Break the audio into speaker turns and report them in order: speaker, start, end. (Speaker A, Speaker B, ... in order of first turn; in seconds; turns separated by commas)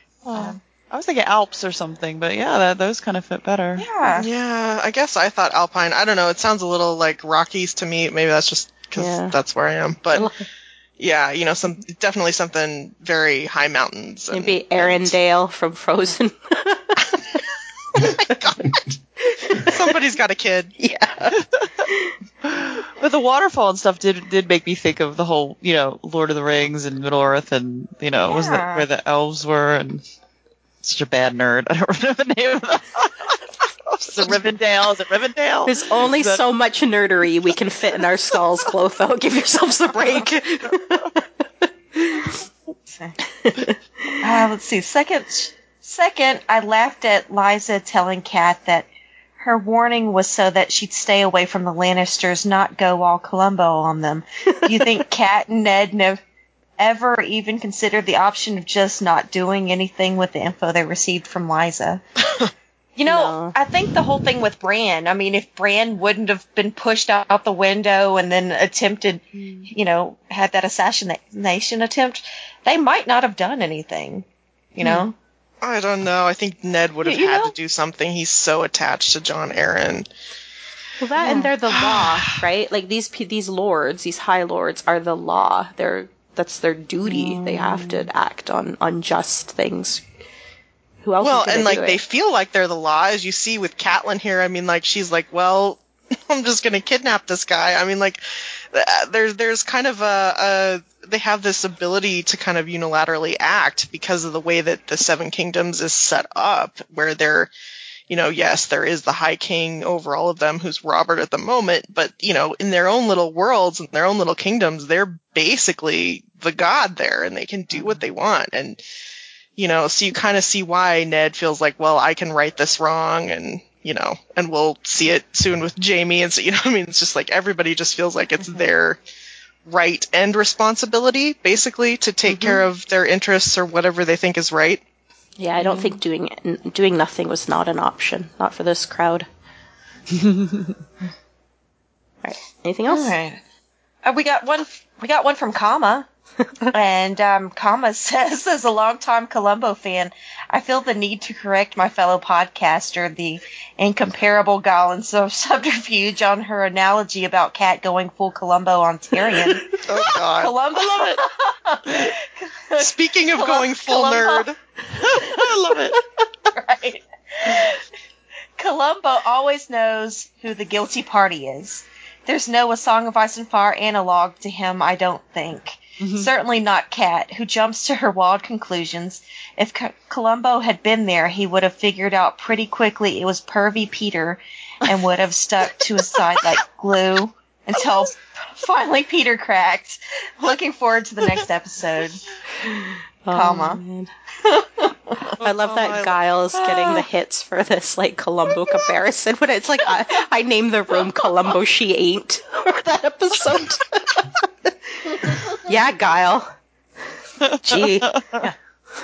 Speaker A: 0.2-3.9, Speaker B: 0.3-0.6, Speaker B: 3.8-4.3, Speaker C: 4.1-10.3, Speaker D: 8.9-9.3, Speaker D: 10.1-10.4, Speaker C: 11.0-15.1, Speaker D: 14.3-17.4, Speaker C: 18.0-18.8, Speaker D: 19.3-19.8, Speaker C: 19.6-20.7, Speaker D: 20.8-22.1, Speaker A: 21.4-21.7, Speaker A: 22.4-30.0, Speaker B: 28.3-28.9, Speaker A: 30.8-36.4, Speaker D: 35.7-42.4, Speaker D: 43.4-44.2, Speaker B: 44.2-48.9, Speaker B: 49.4-56.2, Speaker B: 56.8-62.0, Speaker B: 63.0-75.1, Speaker D: 63.1-63.5, Speaker C: 75.6-80.1, Speaker B: 77.0-77.5, Speaker D: 81.0-90.0, Speaker B: 81.2-81.5, Speaker C: 81.8-82.3, Speaker A: 87.5-87.9, Speaker D: 91.0-92.0, Speaker C: 91.2-107.5, Speaker C: 108.1-118.8, Speaker C: 119.6-129.0, Speaker C: 129.7-134.8, Speaker D: 132.2-132.6, Speaker D: 135.4-139.3, Speaker B: 135.6-136.0, Speaker A: 140.2-140.7, Speaker D: 142.2-143.2, Speaker B: 142.9-143.4, Speaker B: 144.0-146.1, Speaker B: 146.7-164.5, Speaker C: 159.8-160.6, Speaker C: 162.7-164.6, Speaker A: 164.9-166.0, Speaker B: 166.5-167.8, Speaker B: 168.6-192.2, Speaker A: 176.0-176.3, Speaker D: 193.2-194.1, Speaker B: 193.3-193.8, Speaker B: 194.4-195.3, Speaker D: 195.4-206.5, Speaker C: 195.4-196.1, Speaker B: 196.6-197.0, Speaker B: 198.5-198.8, Speaker A: 207.4-208.5, Speaker D: 207.6-208.2